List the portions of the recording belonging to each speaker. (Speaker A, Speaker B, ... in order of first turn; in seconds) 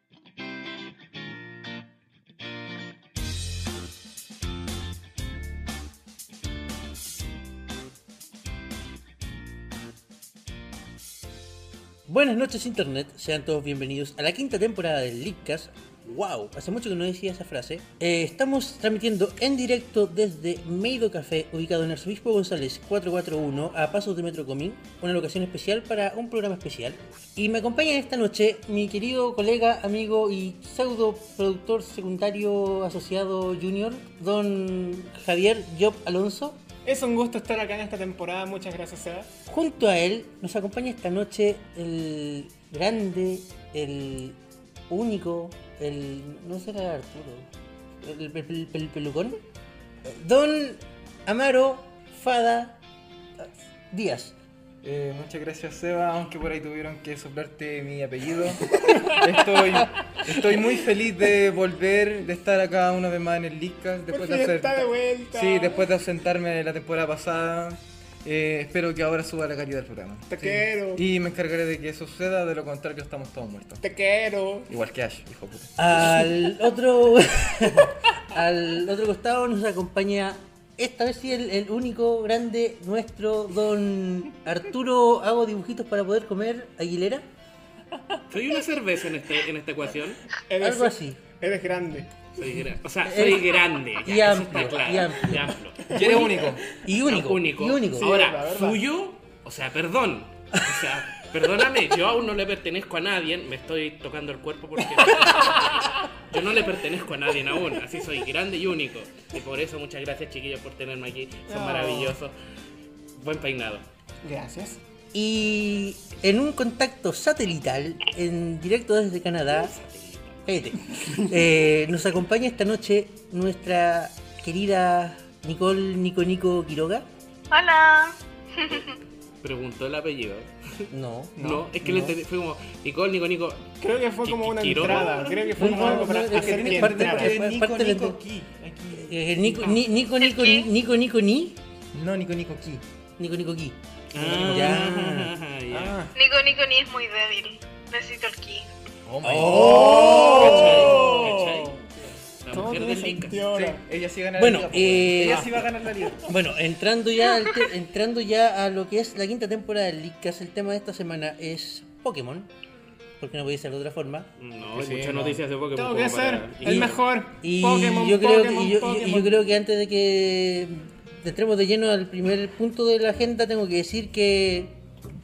Speaker A: 12.1-36.6, 39.5-44.4, 44.9-47.5, 48.0-49.4, 50.0-52.8, 53.4-54.4, 75.8-87.2, 90.6-91.2, 93.0-98.1, 115.1-119.8, 120.5-127.1, 130.9-132.2, 135.5-138.2, 139.0-141.6, 143.2-145.3, 149.2-151.0, 154.3-155.6, 156.2-162.5, 163.2-164.3, 167.4-174.8
Speaker B: 36.8-39.3, 58.8-59.2, 64.1-65.9, 70.3-71.0, 73.8-74.7, 90.5-92.1, 95.8-96.5, 97.9-98.8, 105.0-106.0, 111.5-112.2, 114.2-114.8, 131.4-131.7, 133.8-137.4, 144.3-144.8, 145.7-146.1, 149.4-151.9, 152.5-153.8, 155.2-155.6, 165.7-169.4
Speaker C: 54.8-73.8, 74.7-75.7, 95.9-96.6, 134.8-139.8, 141.9-142.8, 149.1-151.3, 153.5-156.3, 164.7-165.4
Speaker D: 88.3-90.2, 92.3-95.9, 97.0-112.3, 113.2-113.8, 119.5-120.4, 129.4-130.5, 131.4-133.7, 134.2-135.3, 144.1-146.0, 149.7-151.8, 152.4-153.4, 164.4-167.0
Speaker E: 127.5-129.0, 140.2-140.7, 146.1-148.7, 157.2-157.7